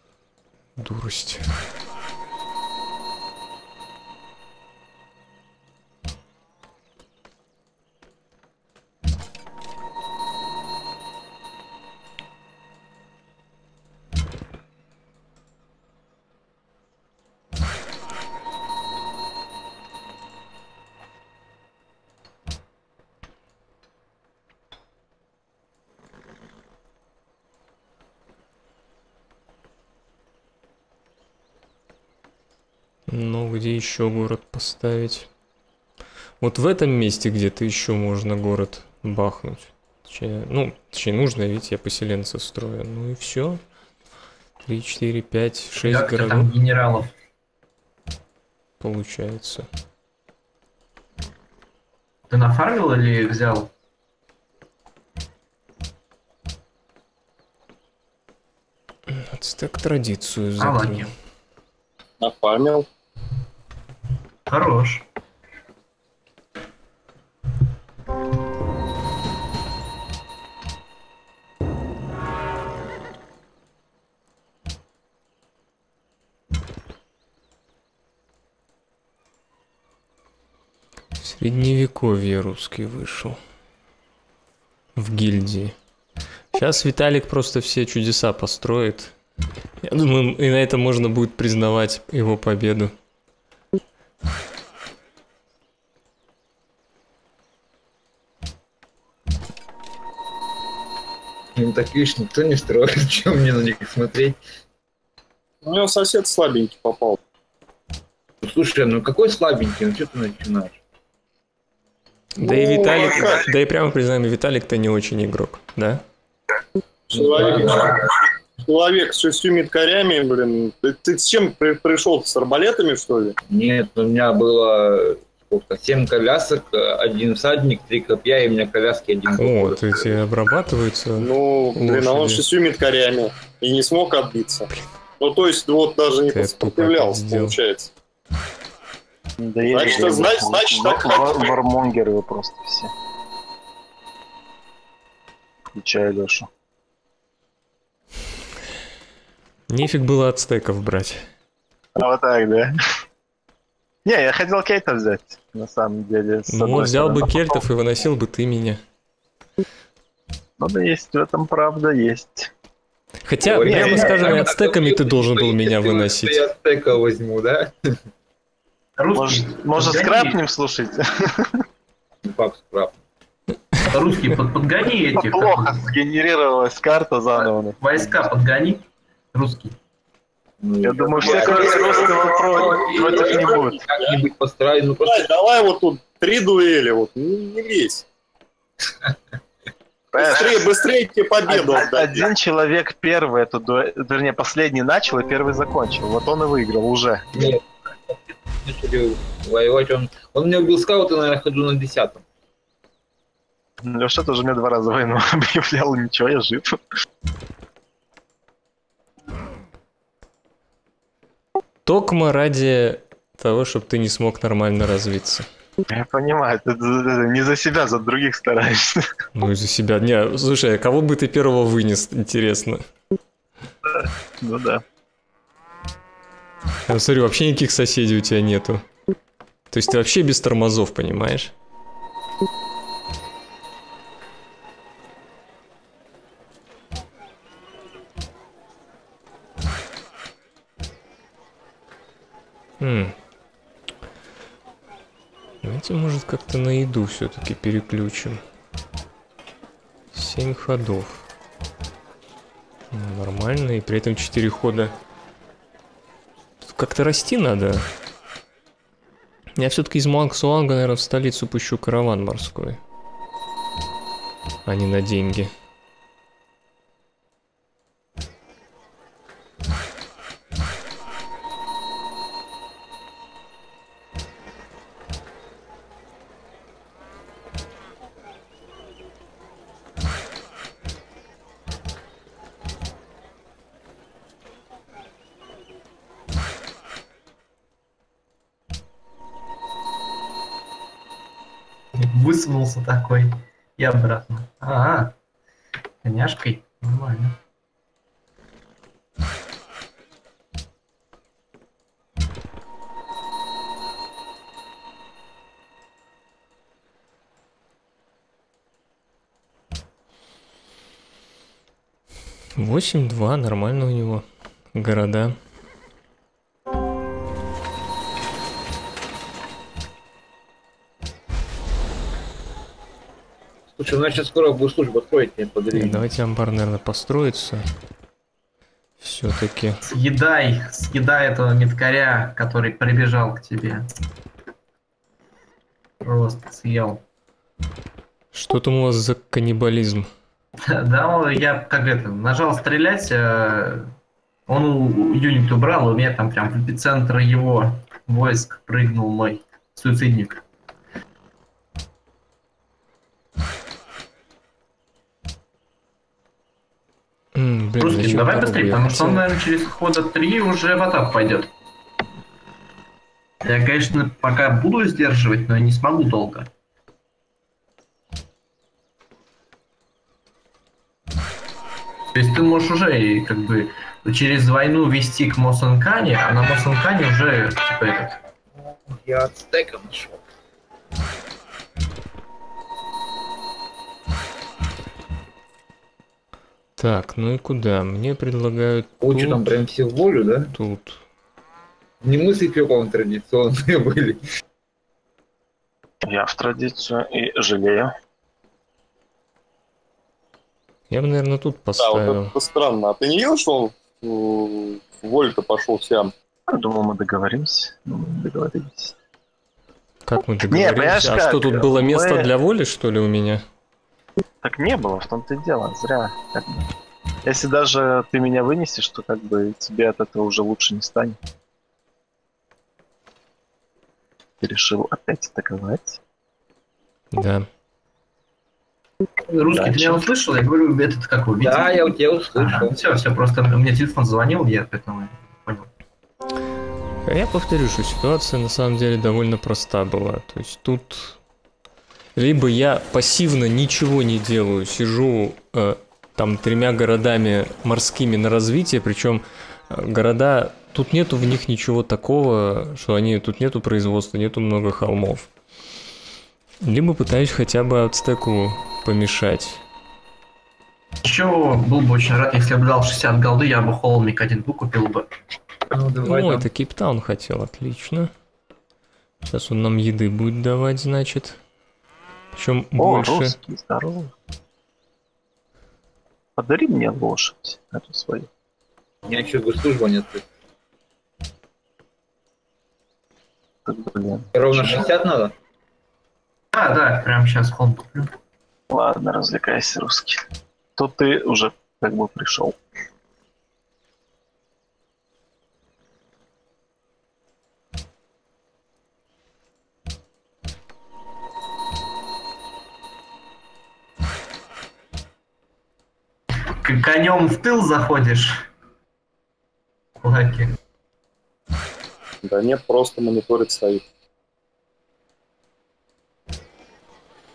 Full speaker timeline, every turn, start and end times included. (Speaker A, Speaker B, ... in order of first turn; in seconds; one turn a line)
Speaker A: 0.8-1.4
Speaker A: 33.1-35.3
Speaker A: 36.4-43.6
Speaker A: 44.6-46.5
Speaker B: 45.8-47.1
Speaker A: 48.8-49.6
Speaker B: 52.3-53.7
Speaker A: 59.1-61.0
Speaker B: 60.6-61.1
Speaker C: 62.2-62.9
Speaker B: 64.5-65.0
Speaker A: 81.2-83.4
Speaker A: 85.0-85.7
Speaker A: 86.5-89.1
Speaker A: 89.8-92.9
Speaker D: 101.5-104.4
Speaker C: 105.6-107.2
Speaker D: 108.4-110.8
Speaker A: 112.4-116.0
Speaker C: 112.5-113.5
Speaker C: 117.1-123.4
Speaker D: 117.1-118.0
Speaker D: 123.5-129.9
Speaker A: 129.3-132.4
Speaker C: 131.2-134.7
Speaker C: 135.2-137.9
Speaker A: 136.3-137.6
Speaker E: 139.4-142.9
Speaker C: 139.7-141.5
Speaker E: 145.7-146.5
Speaker A: 149.7-151.3
Speaker E: 151.9-152.7
Speaker E: 154.0-157.5
Speaker A: 156.5-158.8
Speaker E: 160.6-162.5
Speaker A: 163.2-166.4
Speaker D: 163.4-168.0
Speaker E: 163.6-164.3
Speaker B: 169.0-170.4
Speaker E: 169.1-171.6
Speaker D: 172.2-172.9
Speaker B: 173.9-175.9
Speaker E: 175.1-178.2
Speaker B: 177.8-179.8
Speaker D: 180.6-185.3
Speaker E: 180.8-183.8
Speaker C: 181.3-182.4
Speaker C: 183.0-183.7
Speaker C: 185.0-188.0
Speaker E: 190.1-190.7
Speaker C: 190.2-192.2
Speaker E: 191.4-197.5
Speaker D: 197.3-202.2
Speaker E: 203.8-206.8
Speaker A: 211.8-215.5
Speaker E: 215.9-219.0
Speaker A: 219.3-222.8
Speaker E: 223.8-224.8
Speaker A: 226.9-228.8
Speaker A: 229.7-231.5
Speaker A: 242.8-243.1
Speaker A: 245.6-248.4
Speaker A: 250.1-251.2
Speaker A: 252.9-254.9
Speaker A: 256.6-257.9
Speaker A: 259.6-262.8
Speaker A: 264.6-265.5
Speaker B: 291.9-295.1
Speaker B: 296.0-297.4
Speaker A: 312.6-315.3
Speaker D: 323.8-326.0
Speaker A: 325.7-327.6
Speaker A: 329.0-329.8
Speaker B: 329.8-333.9
Speaker B: 336.0-337.0
Speaker A: 338.3-340.1
Speaker B: 340.7-343.9
Speaker B: 344.5-350.4
Speaker A: 357.3-359.4
Speaker B: 357.8-361.5
Speaker B: 363.4-366.5
Speaker B: 372.1-378.2
Speaker D: 378.6-380.2
Speaker A: 386.8-389.5
Speaker D: 389.0-390.5
Speaker A: 390.5-391.0
Speaker D: 392.0-394.2
Speaker E: 396.0-397.9
Speaker A: 400.9-402.3
Speaker C: 401.8-406.1
Speaker E: 406.5-408.9
Speaker A: 410.1-413.4
Speaker E: 410.5-412.3
Speaker E: 414.4-416.7
Speaker E: 417.2-421.2
Speaker E: 424.4-426.0
Speaker A: 427.1-427.5
Speaker B: 429.3-435.7
Speaker E: 429.5-430.0
Speaker D: 431.4-432.8
Speaker A: 437.1-441.2
Speaker A: 442.1-455.3
Speaker A: 456.6-459.6
Speaker B: 461.0-465.1
Speaker D: 465.7-466.5
Speaker A: 466.0-468.1
Speaker A: 469.2-471.4
Speaker A: 472.3-473.4
Speaker E: 472.8-474.1
Speaker E: 476.4-478.3
Speaker D: 479.0-480.2
Speaker E: 483.6-484.9
Speaker D: 484.3-485.3
Speaker B: 486.5-488.1
Speaker E: 488.7-492.6
Speaker B: 506.5-508.5
Speaker B: 510.0-510.5
Speaker C: 512.2-513.8